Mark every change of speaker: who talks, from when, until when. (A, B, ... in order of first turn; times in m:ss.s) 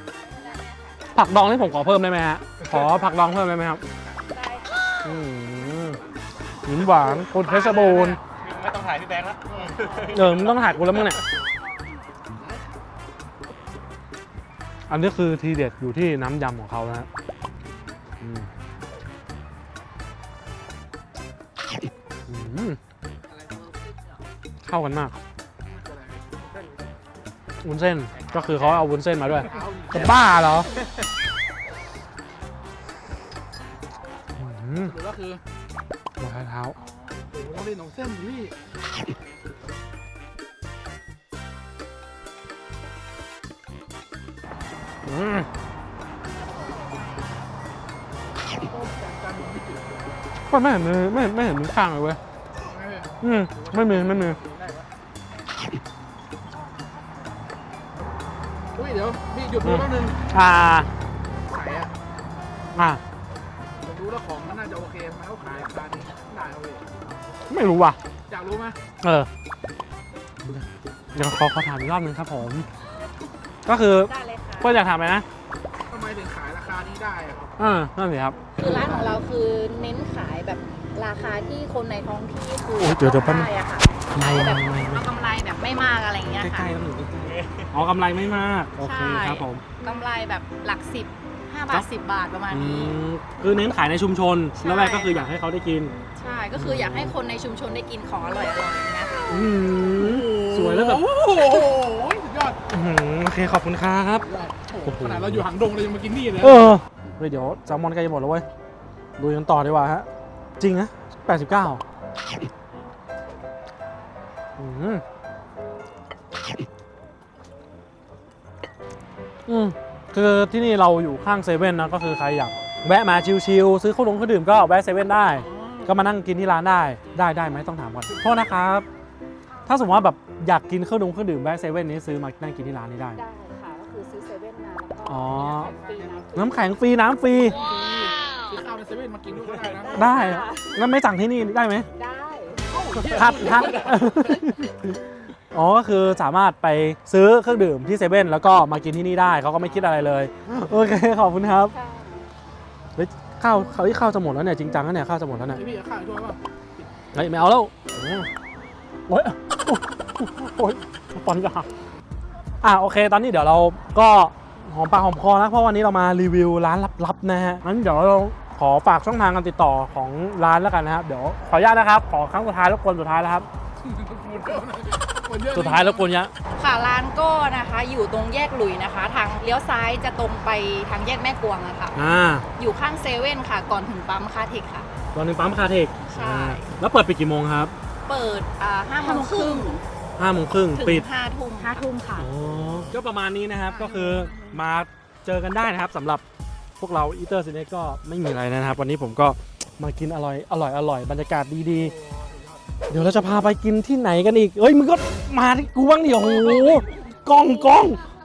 0:01.1-0:03.8 A
0:04.3-0:04.8 B
0:05.0-0:06.0 A
0:06.7-0:08.2 A
0:07.2-0:08.2 C
0:08.5-0:10.1 D
0:10.0-0:11.2 A
0:14.9-0:17.1 A
0:18.2-0:18.5 A
0:22.3-0:22.8 A
0:23.3-0:24.0 D
0:24.6-0:25.2 A
0:25.6-0:26.7 C
0:27.6-0:30.7 A
0:29.4-0:30.3 C
0:34.4-0:34.9 A
0:34.8-0:35.4 C
0:36.2-0:36.8 A
0:36.8-0:38.6 C
0:45.1-0:45.5 A
0:48.5-0:50.2 C
0:50.5-0:52.2 A
0:52.6-0:54.9 C
0:53.2-0:54.4 A
0:58.8-1:00.2 C
0:59.6-1:00.9 A
1:01.5-1:01.9 C
1:02.8-1:03.0 A
1:03.8-1:06.9 C
1:07.5-1:08.0 A
1:08.3-1:08.8 C
1:09.0-1:09.3 A
1:10.4-1:12.7 A
1:13.7-1:15.3 A
1:14.0-1:14.8 B
1:15.9-1:17.5 C
1:17.6-1:18.4 A
1:18.6-1:19.2 C
1:18.6-1:26.7 B
1:22.8-1:23.5 A
1:24.1-1:25.1 A
1:26.4-1:29.6 A
1:28.8-1:33.0 B
1:32.5-1:35.9 A
1:34.6-1:35.3 B
1:36.2-1:39.5 B
1:36.5-1:37.1 A
1:39.3-1:41.1 A
1:40.0-1:42.6 C
1:42.7-1:44.3 A
1:44.2-1:46.8 C
1:44.8-1:45.4 A
1:46.4-1:48.5 A
1:49.2-1:50.1 A
1:50.6-1:51.8 A
1:54.6-1:55.0 A
1:59.5-2:08.9 A
2:05.4-2:05.9 C
2:09.7-2:13.2 A
2:13.2-2:16.9 B
2:15.0-2:15.7 A
2:15.4-2:16.2 C
2:16.4-2:17.6 A
2:17.4-2:20.1 C
2:19.8-2:20.8 B
2:19.9-2:21.9 A
2:21.9-2:22.7 B
2:22.7-2:24.2 C
2:23.1-2:25.0 A
2:25.5-2:31.7 A
2:31.7-2:32.3 B
2:33.0-2:35.6 A
2:35.5-2:37.1 C
2:37.1-2:38.3 A
2:39.1-2:41.7 A
2:42.6-2:53.5 A
2:53.8-2:56.1 C
2:55.5-2:56.3 A
2:56.6-3:02.0 B
3:02.0-3:02.5 A
3:02.6-3:04.9 B
3:05.1-3:07.7 A
3:06.0-3:06.7 B
3:08.1-3:09.8 B
3:09.2-3:09.8 C
3:10.2-3:11.0 A
3:10.8-3:12.3 B
3:12.2-3:16.2 A
3:13.7-3:14.6 C
3:16.8-3:21.9 A
3:21.8-3:23.0 C
3:22.9-3:28.1 A
3:26.2-3:26.9 B